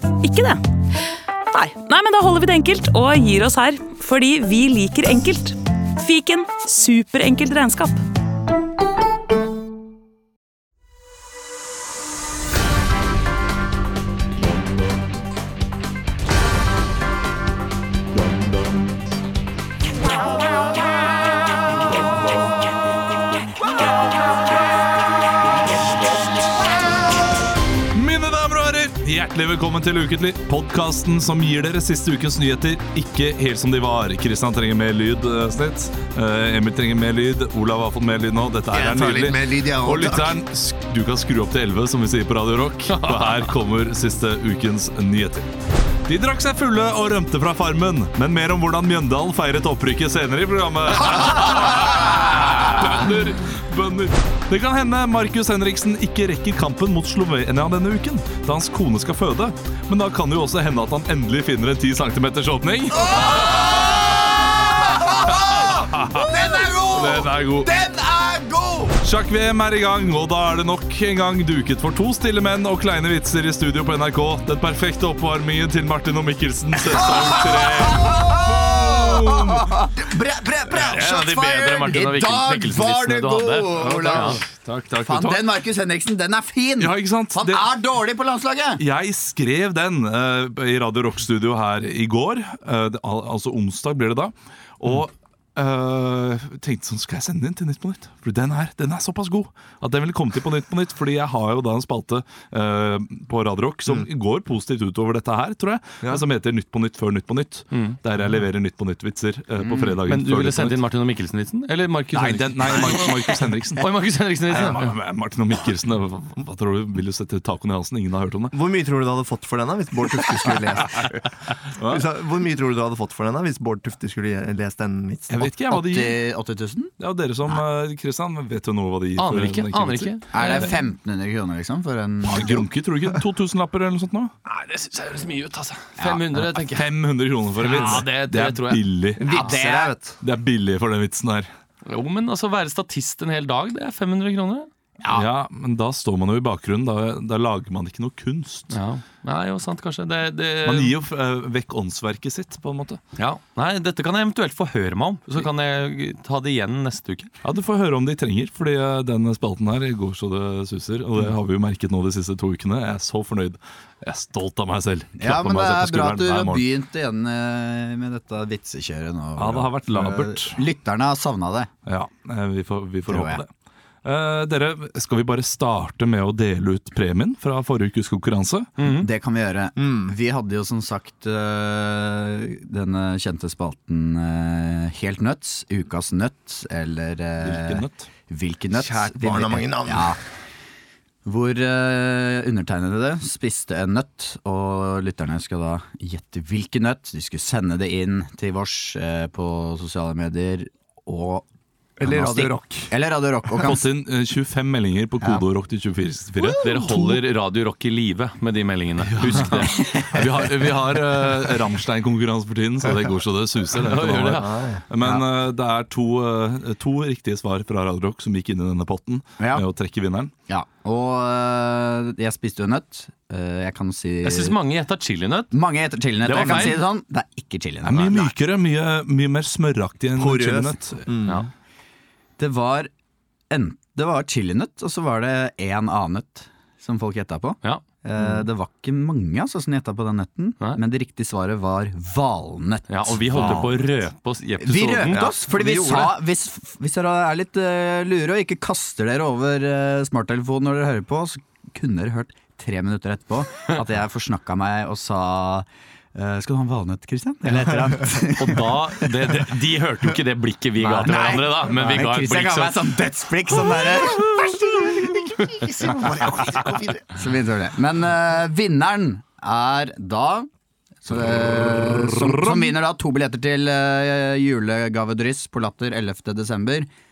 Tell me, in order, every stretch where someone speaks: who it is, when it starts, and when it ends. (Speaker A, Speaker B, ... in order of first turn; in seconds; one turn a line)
Speaker A: 0.2-0.6
Speaker A: 1.5-8.0
Speaker B: 27.9-45.5
Speaker C: 38.7-40.4
Speaker D: 42.9-43.4
Speaker B: 46.1-64.0
Speaker E: 62.9-69.0
Speaker B: 65.2-66.3
Speaker B: 66.9-67.7
Speaker B: 69.0-79.7
Speaker E: 76.9-84.4
Speaker D: 80.8-84.4
Speaker B: 83.8-85.4
Speaker E: 85.0-88.8
Speaker B: 86.8-87.6
Speaker B: 88.8-110.8
Speaker D: 107.7-108.0
Speaker E: 109.6-110.0
Speaker D: 110.0-113.1
Speaker B: 112.1-113.9
Speaker D: 113.8-114.9
Speaker B: 114.5-118.5
Speaker C: 118.5-121.2
Speaker B: 121.8-122.0
Speaker C: 121.9-125.5
Speaker B: 125.3-126.2
Speaker E: 125.5-126.9
Speaker B: 127.0-130.7
Speaker D: 129.2-130.7
Speaker E: 130.3-132.6
Speaker B: 132.2-134.3
Speaker D: 134.4-136.9
Speaker E: 136.0-136.2
Speaker B: 136.7-139.2
Speaker D: 137.6-138.8
Speaker C: 139.2-140.2
Speaker E: 139.2-139.9
Speaker B: 140.2-141.5
Speaker D: 141.8-144.7
Speaker E: 145.0-145.3
Speaker B: 145.1-148.8
Speaker D: 148.7-150.9
Speaker B: 150.6-153.0
Speaker D: 153.2-157.3
Speaker B: 157.4-166.7
Speaker E: 165.2-171.7
Speaker B: 169.3-170.6
Speaker B: 171.8-173.5
Speaker E: 173.1-173.4
Speaker B: 174.0-178.7
Speaker D: 178.8-179.1
Speaker E: 178.9-190.2
Speaker C: 179.8-180.1
Speaker B: 187.4-188.1
Speaker C: 188.7-190.2
Speaker E: 191.2-201.4
Speaker C: 202.0-202.9
Speaker E: 202.0-203.8
Speaker B: 203.6-207.2
Speaker E: 205.2-205.4
Speaker D: 206.6-209.8
Speaker B: 209.1-220.3
Speaker E: 209.6-210.4
Speaker D: 213.8-214.5
Speaker C: 214.4-214.8
Speaker E: 215.0-215.2
Speaker E: 219.4-219.7
Speaker E: 220.5-224.6
Speaker D: 224.2-225.5
Speaker E: 225.5-228.3
Speaker D: 226.2-226.8
Speaker B: 226.3-226.7
Speaker B: 227.8-231.0
Speaker C: 230.2-231.4
Speaker E: 232.4-232.9
Speaker E: 233.5-243.7
Speaker D: 242.9-245.3
Speaker C: 243.3-243.7
Speaker E: 244.6-259.1
Speaker C: 245.1-246.2
Speaker D: 258.4-262.9
Speaker C: 260.8-261.4
Speaker E: 261.0-264.6
Speaker C: 264.2-267.1
Speaker E: 265.8-270.5
Speaker E: 271.0-276.9
Speaker B: 271.2-272.6